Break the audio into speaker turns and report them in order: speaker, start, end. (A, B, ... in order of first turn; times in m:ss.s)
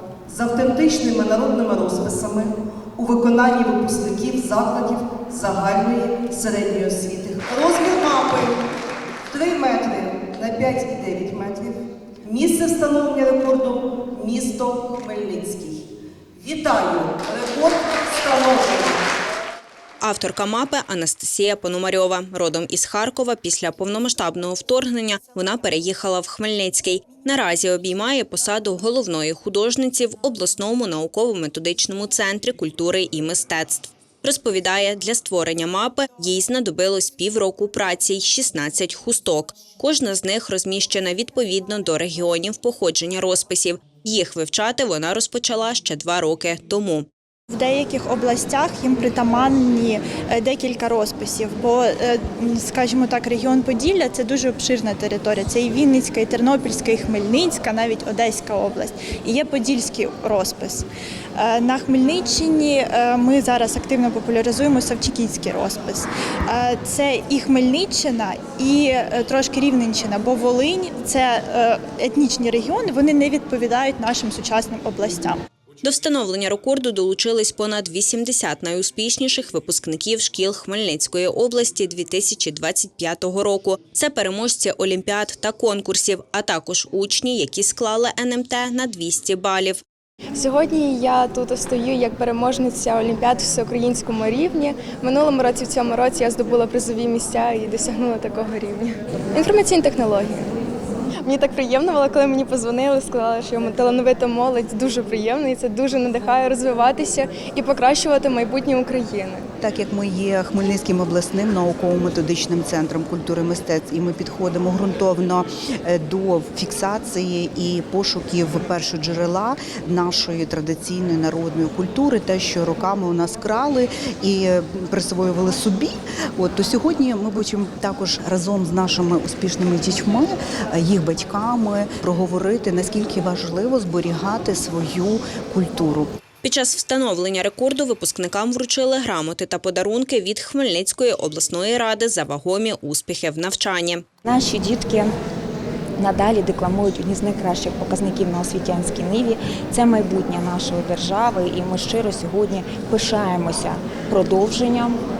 0:00.3-0:08.6 A
0:09.3-0:15.8 A
0:16.4-0:19.0 A
0:20.0-0:47.1 B
0:47.5-1:15.4 C
1:15.8-1:29.8 B
1:30.3-1:40.5 D
1:41.2-1:49.4 D
1:49.6-2:16.1 E
2:16.4-2:24.0 B
2:24.2-2:25.1 F
2:26.0-2:35.0 F